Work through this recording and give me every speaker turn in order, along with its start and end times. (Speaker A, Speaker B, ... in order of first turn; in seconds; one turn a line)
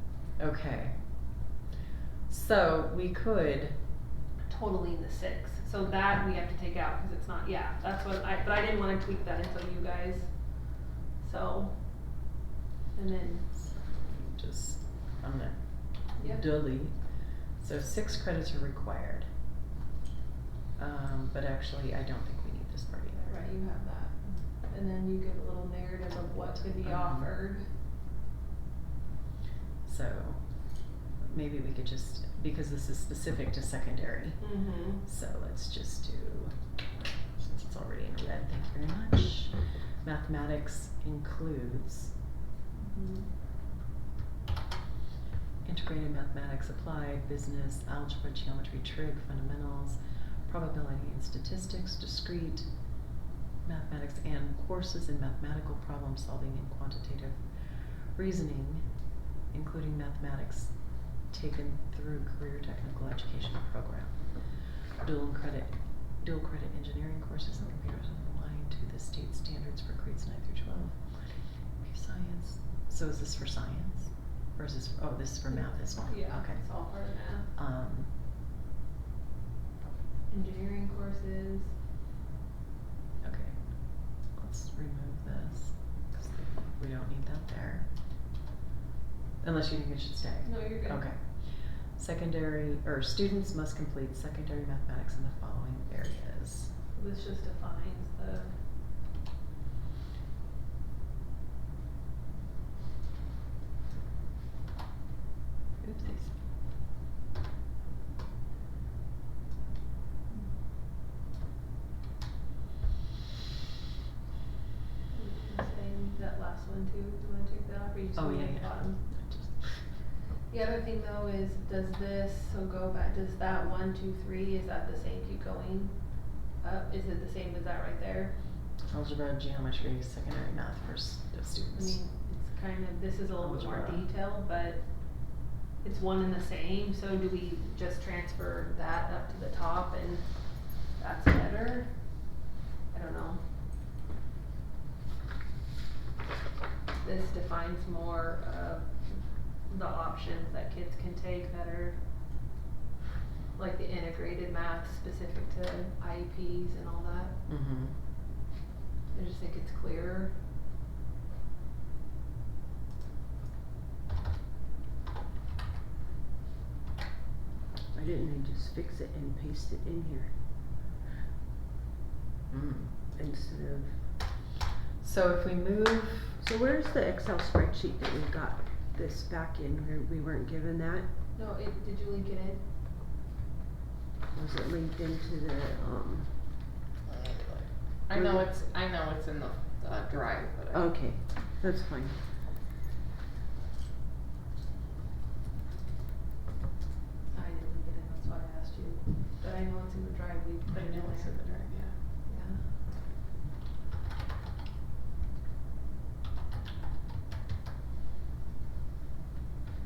Speaker A: 0.4-1.4
Speaker A: 2.3-3.8
Speaker B: 4.5-12.3
Speaker B: 12.9-13.6
Speaker A: 13.6-19.3
Speaker B: 16.2-16.4
Speaker A: 20.8-23.5
Speaker B: 23.2-27.7
Speaker A: 26.8-27.3
Speaker A: 29.8-42.1
Speaker B: 34.4-35.0
Speaker B: 42.7-43.3
Speaker A: 45.6-52.9
Speaker A: 53.6-78.1
Speaker B: 75.5-77.5
Speaker B: 80.3-81.7
Speaker A: 83.2-87.9
Speaker A: 89.4-96.7
Speaker B: 90.4-91.1
Speaker B: 96.9-98.6
Speaker A: 105.8-106.4
Speaker B: 115.1-119.0
Speaker A: 118.2-120.0
Speaker B: 120.5-128.4
Speaker A: 128.8-132.0
Speaker B: 131.7-142.3
Speaker A: 133.3-134.1
Speaker B: 142.9-143.5
Speaker B: 147.0-152.0
Speaker B: 153.6-157.4
Speaker A: 157.4-158.0
Speaker B: 159.1-160.4
Speaker C: 167.9-170.3
Speaker A: 172.5-172.9
Speaker C: 173.1-174.0
Speaker A: 175.0-176.4
Speaker C: 176.4-181.1
Speaker B: 181.3-182.6
Speaker C: 184.3-186.4
Speaker D: 187.1-190.9
Speaker C: 188.1-188.4
Speaker C: 190.7-192.2
Speaker B: 197.3-202.7
Speaker A: 200.7-202.0